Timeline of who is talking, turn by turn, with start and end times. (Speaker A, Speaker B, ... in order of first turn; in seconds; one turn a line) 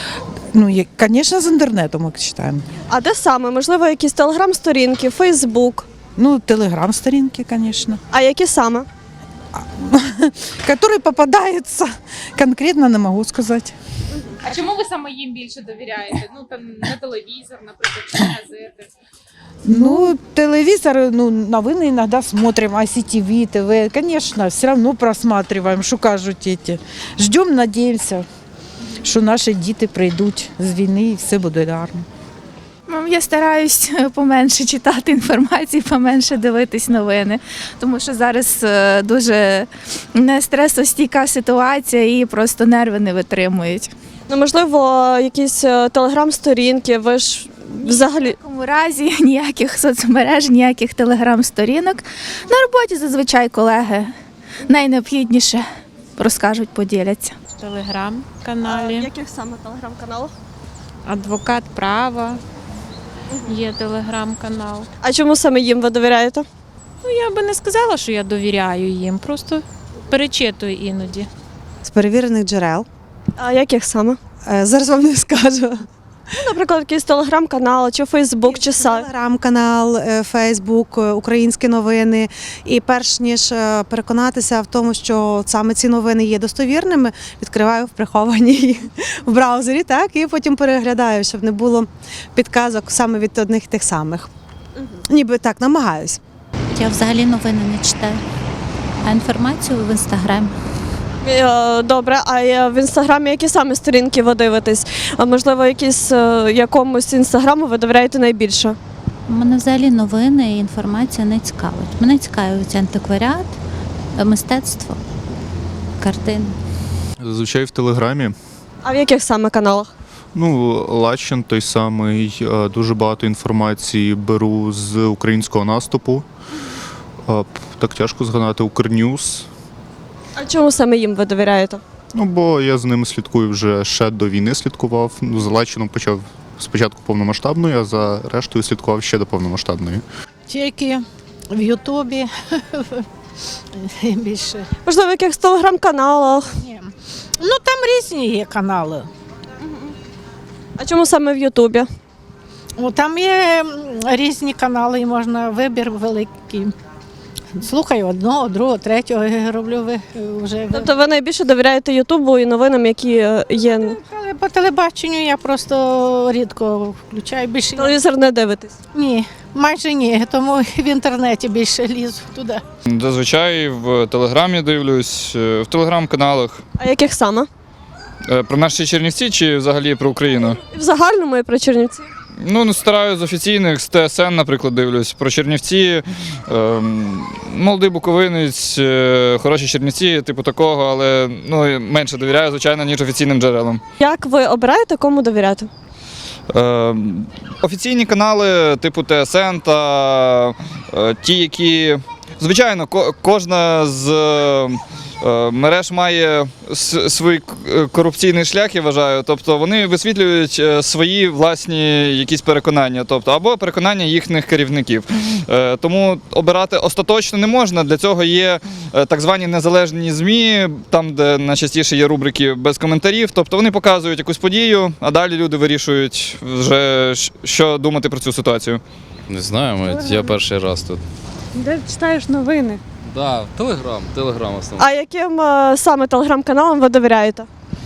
Speaker A: 0.5-2.6
Speaker B: 2.9-5.9
Speaker A: 6.2-8.0
Speaker B: 8.1-8.9
Speaker A: 9.6-13.7
Speaker C: 14.4-18.9
Speaker A: 19.6-28.2
Speaker A: 29.0-32.0
Speaker D: 32.9-43.9
Speaker B: 44.3-48.4
Speaker D: 47.8-54.1
Speaker D: 54.6-55.6
Speaker D: 56.2-57.4
Speaker E: 57.5-59.1
Speaker B: 58.6-60.3
Speaker E: 61.0-62.4
Speaker E: 63.5-64.9
Speaker B: 65.0-66.5
Speaker E: 67.0-71.3
Speaker F: 71.8-72.8
Speaker B: 73.4-74.2
Speaker F: 74.5-75.8
Speaker B: 76.4-79.1
Speaker F: 78.5-94.3
Speaker F: 95.1-96.2
Speaker G: 96.7-98.2
Speaker G: 99.0-100.5
Speaker B: 101.2-108.8
Speaker G: 109.3-113.5
Speaker G: 114.2-115.0
Speaker G: 116.0-116.5
Speaker H: 117.2-118.3
Speaker B: 118.8-119.9
Speaker H: 120.3-126.2
Speaker H: 127.3-129.5
Speaker B: 130.4-131.8
Speaker H: 132.1-140.0
Speaker I: 140.5-143.1
Speaker I: 143.8-144.7
Speaker B: 144.8-146.5
Speaker I: 146.6-149.1
Speaker B: 149.6-149.9
Speaker B: 150.8-151.9
Speaker I: 152.8-156.7
Speaker I: 157.6-160.9
Speaker B: 160.7-164.0
Speaker I: 163.9-167.9
Speaker B: 167.8-168.8
Speaker I: 168.9-172.6
Speaker J: 172.9-176.6
Speaker B: 176.8-177.5
Speaker J: 178.3-180.6
Speaker B: 180.7-182.1
Speaker J: 182.4-193.8
Speaker B: 194.0-195.7
Speaker J: 196.5-228.8
Speaker K: 229.3-231.0
Speaker E: 231.7-232.6
Speaker K: 233.1-234.9
Speaker B: 234.8-237.5